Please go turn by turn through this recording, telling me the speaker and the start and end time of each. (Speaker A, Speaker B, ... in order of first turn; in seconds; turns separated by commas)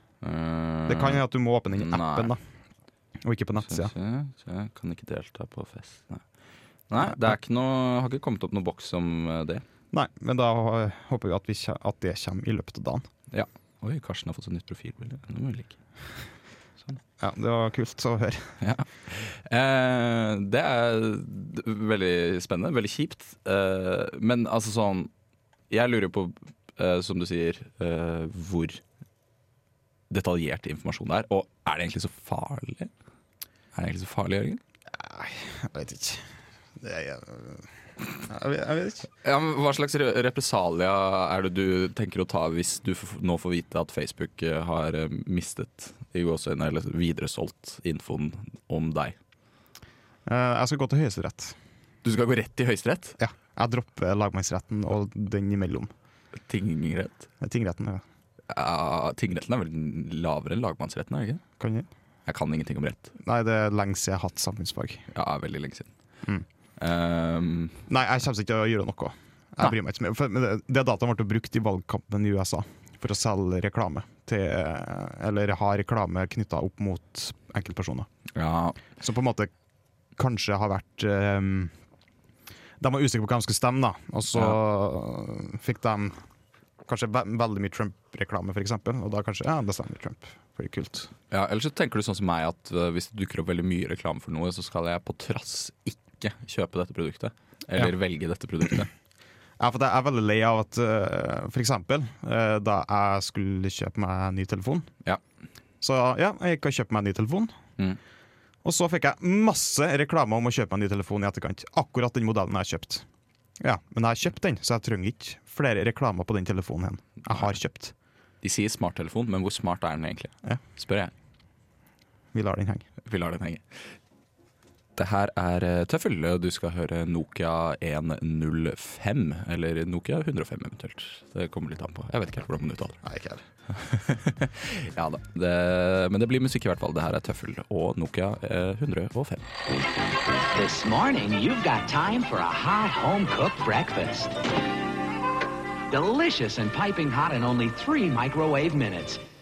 Speaker A: 0.2-1.2, Speaker B: 0.8-2.4, Speaker A: 1.7-2.3, Speaker B: 3.2-3.9, Speaker A: 3.6-6.2, Speaker A: 6.9-9.6, Speaker B: 9.9-13.0, Speaker A: 13.3-15.8, Speaker B: 17.2-18.5, Speaker A: 18.6-25.1, Speaker A: 25.7-28.8, Speaker A: 30.1-32.9, Speaker A: 33.7-34.6, Speaker B: 34.9-36.2, Speaker B: 36.8-37.7, Speaker B: 38.2-39.1, Speaker A: 39.2-49.1, Speaker B: 50.2-51.5, Speaker A: 52.0-53.2, Speaker B: 53.2-55.9, Speaker A: 56.5-57.3, Speaker B: 57.4-58.0, Speaker A: 58.5-61.4, Speaker B: 61.6-61.9, Speaker A: 62.2-63.1, Speaker B: 63.2-65.0, Speaker A: 65.1-65.9, Speaker A: 66.8-67.8, Speaker B: 67.9-78.1, Speaker A: 78.3-78.8, Speaker B: 78.9-79.5, Speaker B: 80.2-81.7, Speaker B: 82.8-86.2, Speaker B: 86.8-91.1, Speaker A: 91.3-98.9, Speaker B: 99.6-104.9, Speaker B: 105.8-107.5, Speaker B: 108.6-113.0, Speaker B: 113.6-117.9, Speaker A: 118.4-121.1, Speaker B: 122.3-122.8, Speaker A: 123.0-123.6, Speaker A: 125.0-133.0, Speaker B: 133.0-133.4, Speaker A: 133.7-139.5, Speaker C: 140.6-144.3, Speaker C: 145.9-149.2